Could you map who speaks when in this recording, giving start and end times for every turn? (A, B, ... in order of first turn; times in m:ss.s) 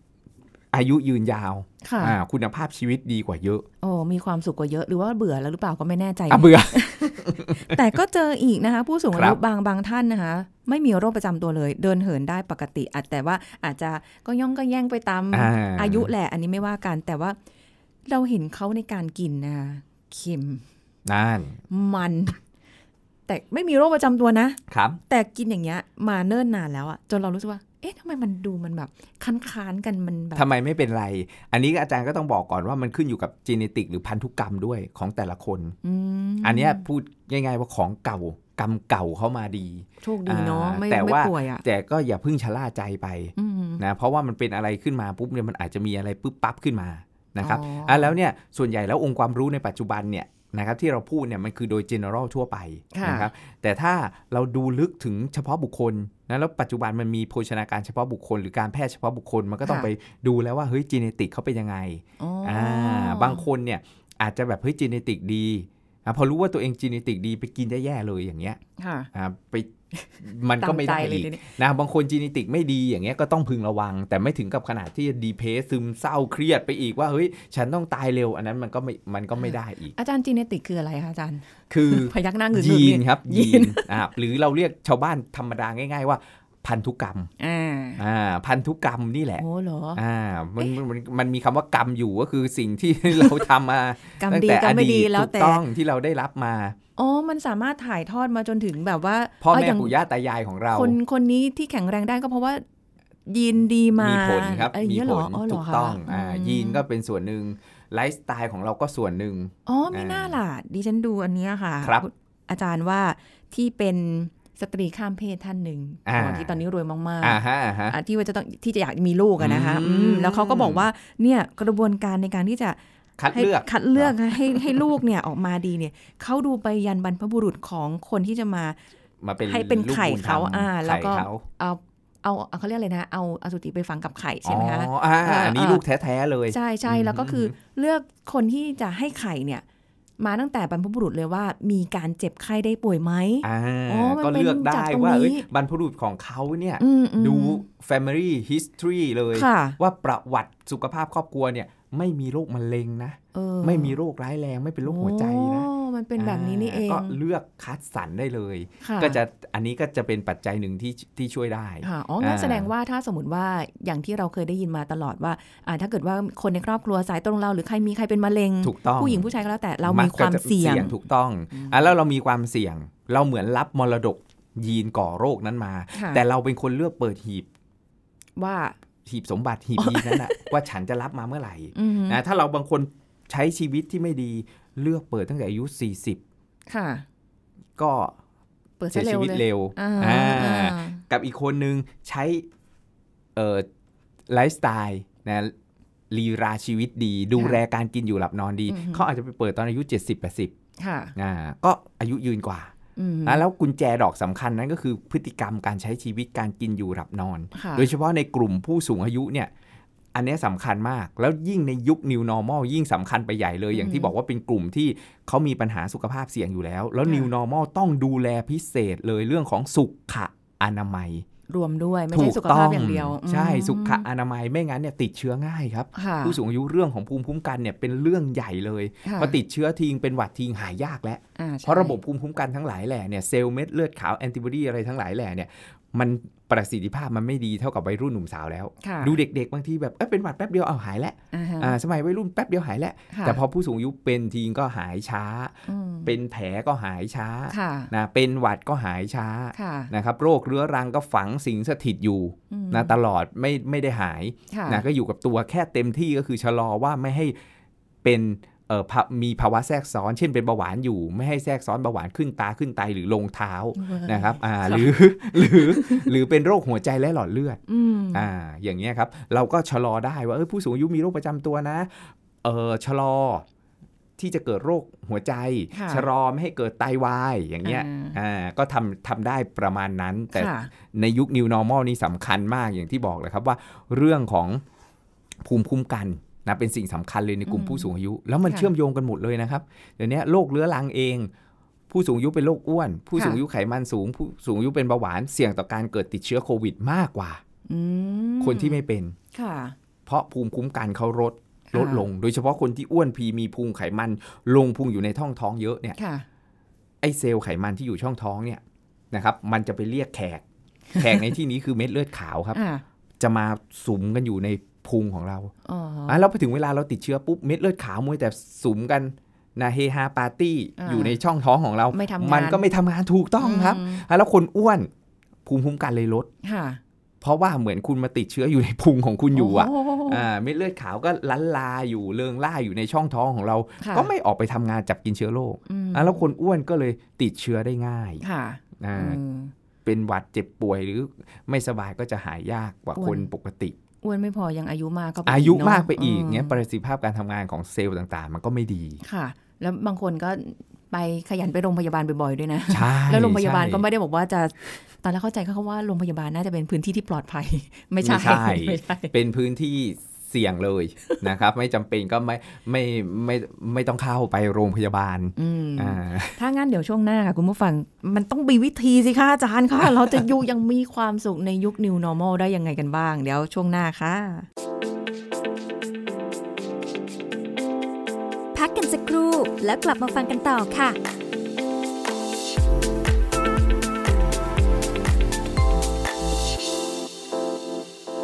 0:00.7-0:03.7 A
0:01.8-0:02.2 B
0:03.8-0:17.4 B
0:06.3-0:07.8 A
0:09.1-0:09.4 A
0:15.3-0:16.1 A
0:18.1-0:20.6 B
0:21.1-0:21.6 A
0:21.7-0:22.4 B
0:23.3-0:30.5 B
0:24.7-0:25.0 A
0:30.4-0:35.8 A
0:35.8-0:36.8 B
0:36.4-1:08.6 A
0:40.0-0:41.6 B
0:43.4-0:43.8 B
0:47.4-0:48.1 B
0:52.9-0:53.3 B
0:59.6-0:59.9 B
1:02.2-1:03.4 B
1:08.8-1:09.1 B
1:09.1-1:20.0 A
1:09.9-1:11.5 B
1:20.0-1:23.9 B
1:21.7-1:27.3 A
1:27.4-1:28.0 B
1:28.0-1:29.4 A
1:29.4-1:30.0 B
1:30.0-1:36.8 A
1:34.2-1:35.6 B
1:37.0-1:39.9 B
1:39.4-1:41.0 A
1:40.7-1:42.6 B
1:43.3-1:46.8 B
1:44.0-1:50.4 A
1:49.7-2:02.8 B
1:56.1-1:56.6 A
1:57.2-1:58.0 A
1:59.4-2:00.9 A
2:03.2-2:04.9 A
2:03.3-2:08.8 B
2:09.2-2:11.4 A
2:09.4-2:15.8 B
2:14.4-2:17.6 A
2:16.5-2:19.6 B
2:20.2-2:25.5 B
2:23.4-2:42.7 A
2:26.8-2:27.6 B
2:29.3-2:29.8 B
2:33.3-2:34.0 B
2:34.8-2:37.2 B
2:38.8-2:39.2 B
2:41.8-2:51.0 B
2:48.6-2:49.3 A
2:49.8-2:57.5 A
2:51.5-2:51.9 B
2:55.9-2:56.2 B
2:58.4-2:58.8 B
2:59.0-3:06.2 A
2:59.8-3:00.5 B
3:01.7-3:02.2 B
3:06.7-3:07.0 B
3:07.8-3:08.2 A
3:08.8-3:11.0 B
3:08.9-3:12.5 A
3:13.4-3:13.7 A
3:14.3-3:15.5 A
3:16.1-3:20.5 A
3:18.7-3:19.0 B
3:20.8-3:21.1 B
3:21.2-3:22.7 A
3:23.0-3:23.4 B
3:23.3-3:29.5 A
3:27.5-3:27.9 B
3:30.1-3:41.3 A
3:33.7-3:34.1 B
3:41.5-3:44.0 B
3:42.1-4:17.4 A
3:46.0-3:46.4 B
3:49.0-3:49.4 B
3:51.4-3:52.0 B
3:58.8-3:59.2 B
4:01.3-4:01.8 B
4:03.1-4:03.4 B
4:05.7-4:06.1 B
4:07.5-4:07.9 B
4:09.5-4:09.9 B
4:12.5-4:12.9 B
4:14.5-4:14.8 B
4:18.0-4:27.6 A
4:23.8-4:26.1 B
4:27.7-4:28.3 B
4:28.1-4:33.4 A
4:34.2-4:44.6 A
4:35.7-4:36.1 B
4:37.6-4:38.2 B
4:40.3-4:40.7 B
4:45.4-4:51.3 A
4:47.5-4:47.9 B
4:51.9-4:57.4 A
4:53.2-4:53.4 B
4:57.7-4:59.8 B
4:58.4-4:59.2 A
5:00.1-5:06.0 A
5:01.7-5:02.1 B
5:06.0-5:06.2 B
5:07.0-5:10.4 A
5:11.0-5:12.6 A
5:12.5-5:12.8 B
5:13.2-5:15.5 A
5:15.6-5:16.3 B
5:16.1-5:24.9 A
5:20.8-5:21.2 B
5:21.9-5:22.6 B
5:23.4-5:24.0 B
5:25.5-5:26.3 A
5:26.4-5:26.8 B
5:27.2-5:38.2 A
5:29.3-5:30.2 B
5:33.8-5:34.1 B
5:35.7-5:36.3 B
5:38.2-5:39.5 B
5:38.8-5:39.2 A
5:39.8-5:43.8 A
5:43.0-5:43.3 B
5:44.0-5:46.6 B
5:45.3-5:49.0 A
5:49.0-5:59.1 B
5:52.7-5:53.8 A
5:58.0-6:06.4 A
6:05.4-6:14.5 B
6:18.6-6:21.0 C